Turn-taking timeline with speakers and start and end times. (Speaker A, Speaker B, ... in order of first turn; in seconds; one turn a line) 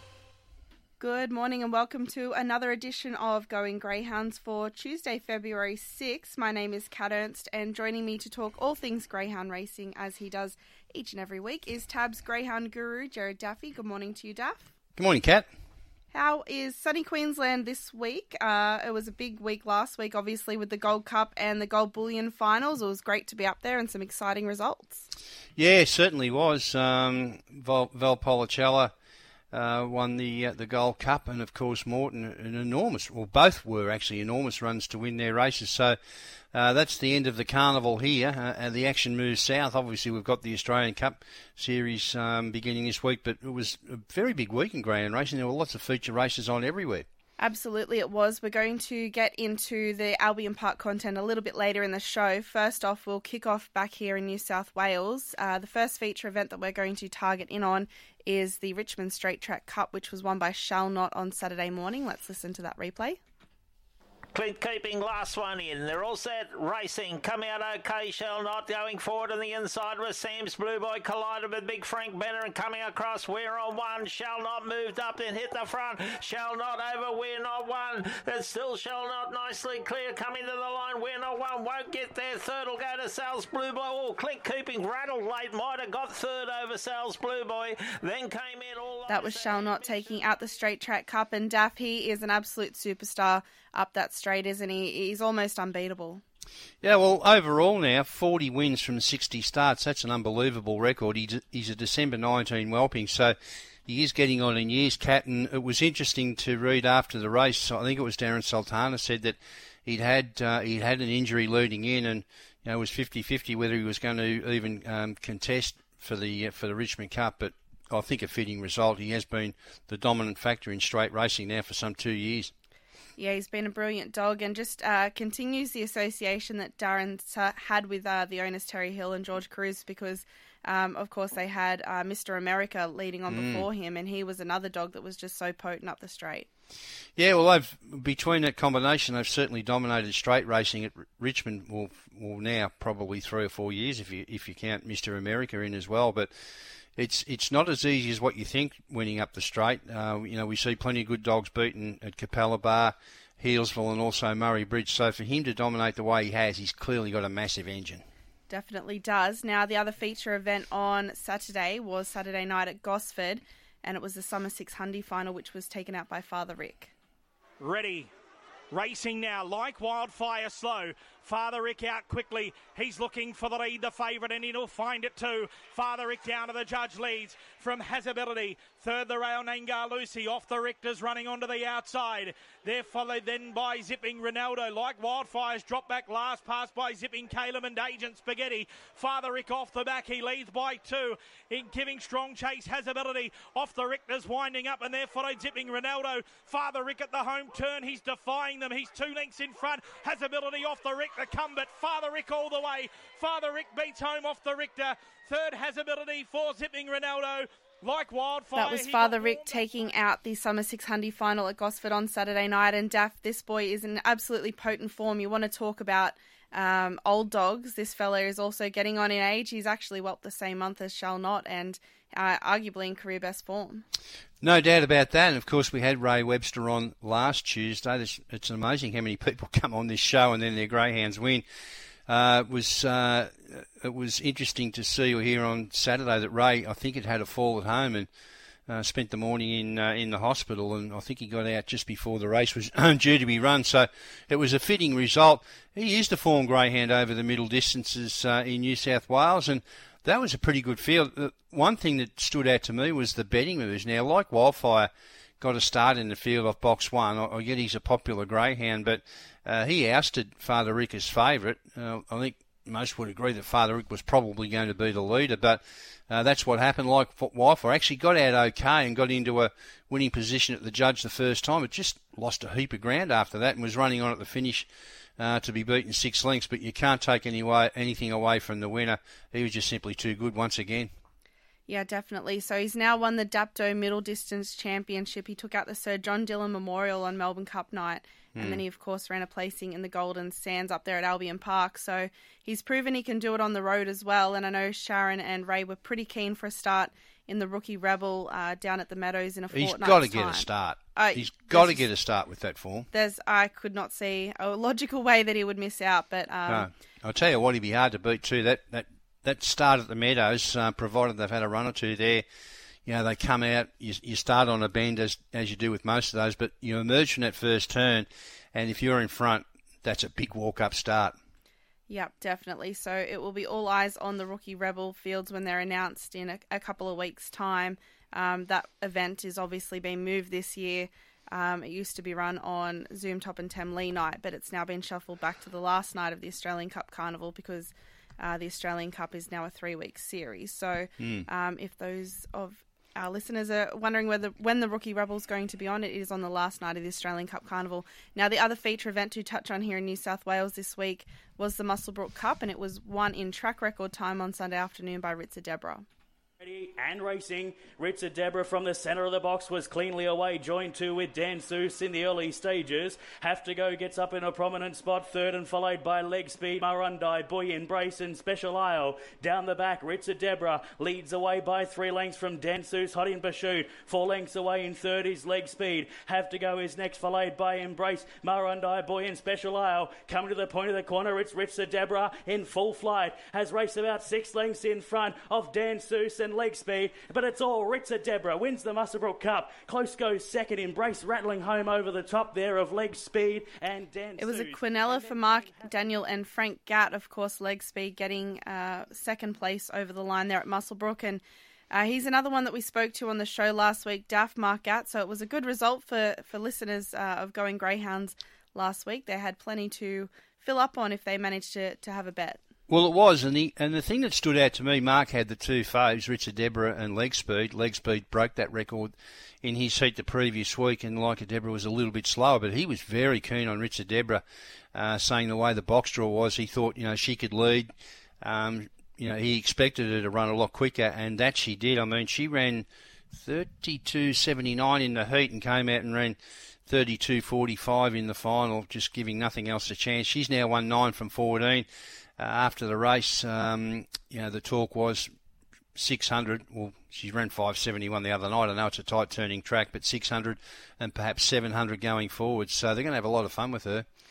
Speaker A: 1.0-14.7
Speaker B: 15.0-15.5
Speaker A: 16.1-25.1
Speaker B: 25.6-28.9
Speaker B: 29.5-36.0
Speaker B: 36.5-47.0
Speaker A: 47.4-63.2
Speaker C: 64.3-90.3
Speaker A: 89.1-96.2
Speaker B: 96.8-103.3
Speaker B: 103.9-122.5
Speaker A: 123.2-136.5
Speaker B: 133.3-133.7
Speaker B: 137.2-146.3
Speaker B: 146.9-158.0
Speaker A: 158.5-166.9
Speaker D: 167.6-168.1
Speaker D: 168.7-209.7
Speaker A: 208.6-223.8
Speaker B: 224.4-231.4
Speaker B: 232.1-238.1
Speaker B: 238.7-254.9
Speaker B: 255.4-274.7
Speaker B: 275.2-280.9
Speaker A: 281.7-301.9
Speaker B: 288.4-288.6
Speaker B: 299.5-302.9
Speaker A: 302.9-306.7
Speaker B: 306.5-312.2
Speaker B: 312.9-321.1
Speaker A: 321.9-355.8
Speaker B: 341.0-341.2
Speaker E: 356.4-396.0
Speaker A: 394.2-412.4
Speaker B: 412.7-424.2
Speaker B: 424.8-427.7
Speaker B: 428.2-441.7
Speaker B: 442.2-445.1
Speaker B: 445.8-453.9